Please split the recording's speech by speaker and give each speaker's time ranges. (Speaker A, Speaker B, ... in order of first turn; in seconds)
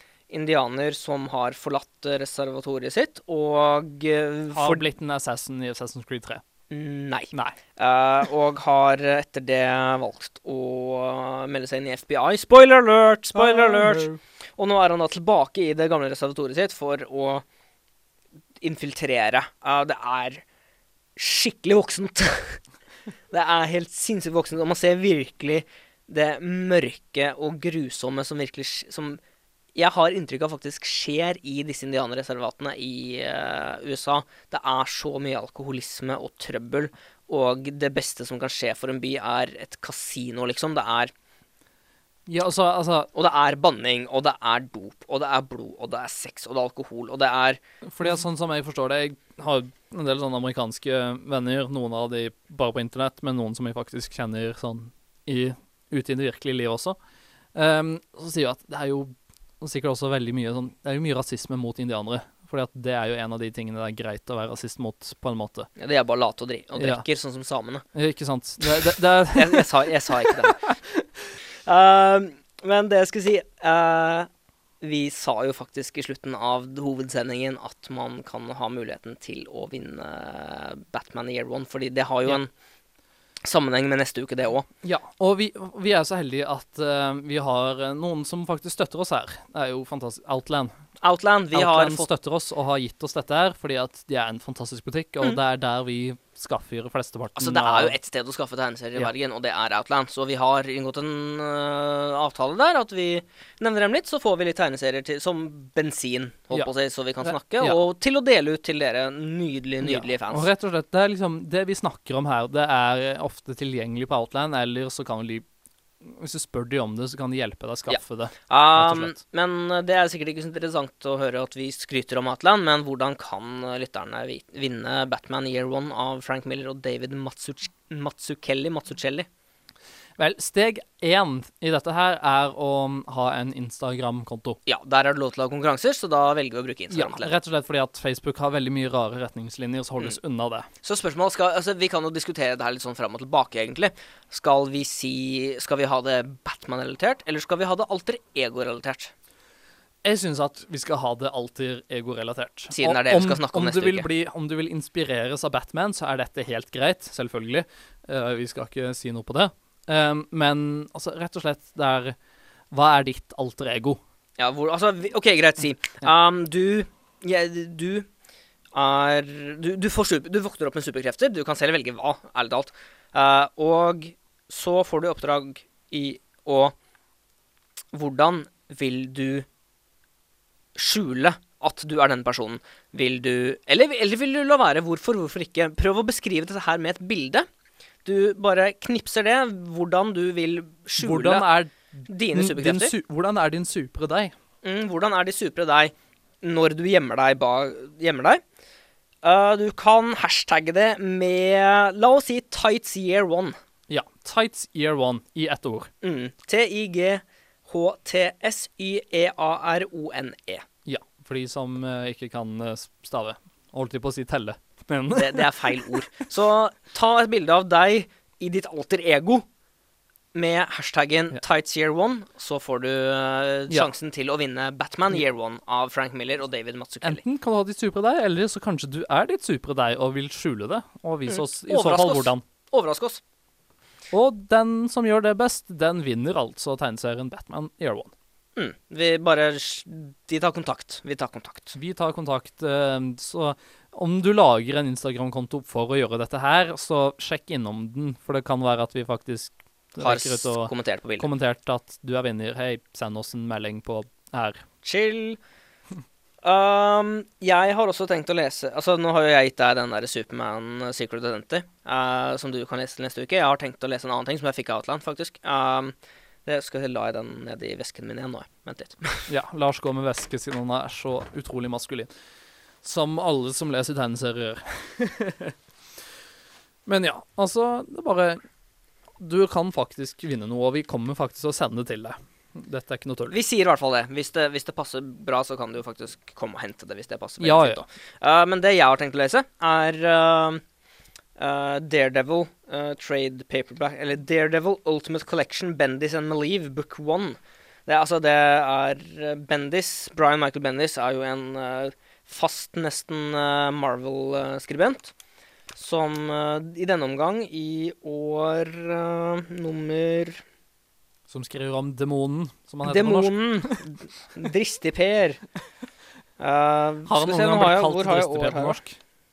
Speaker A: 0.3-4.8, 6.7-17.4, 18.6-20.4, 21.1-22.6, 23.3-29.2, 29.7-41.1, 43.1-47.6, 65.8-67.8, 68.6-71.0, 71.7-74.3, 74.8-82.5, 83.4-84.7, 91.0-92.1, 97.3-110.5, 117.9-129.3, 134.7-137.3, 140.8-149.1, 152.7-154.1, 164.4-168.1, 168.7-176.7, 177.9-179.5, 180.8-187.5, 188.0-191.4, 192.1-192.9, 194.6-198.4, 199.2-203.6, 206.0-210.7, 215.1-219.4, 220.3-227.2, 231.3-233.2, 238.6-241.8, 250.0-251.3, 254.8-255.4, 256.4-265.9, 266.4-269.3, 283.3-290.6, 291.4-305.1, 305.7-310.4, 312.8-315.4, 316.4-318.8
Speaker B: 4.5-6.4, 13.3-14.2, 42.3-43.1, 47.9-57.0, 57.5-65.7, 66.8-67.0, 67.9-69.7, 70.3-70.7, 84.8-90.7, 91.5-97.9, 107.2-107.8, 109.8-115.4, 116.0-119.1, 130.2-134.6, 136.9-140.7, 150.0-162.2, 162.7-164.0, 191.0-194.3, 203.9-205.9, 210.8-215.9, 227.0-232.4, 234.1-238.1, 241.7-254.6, 269.3-272.1, 272.8-275.5, 276.9-278.4, 279.2-283.3, 287.4-287.8, 311.3-313.9, 317.1-319.0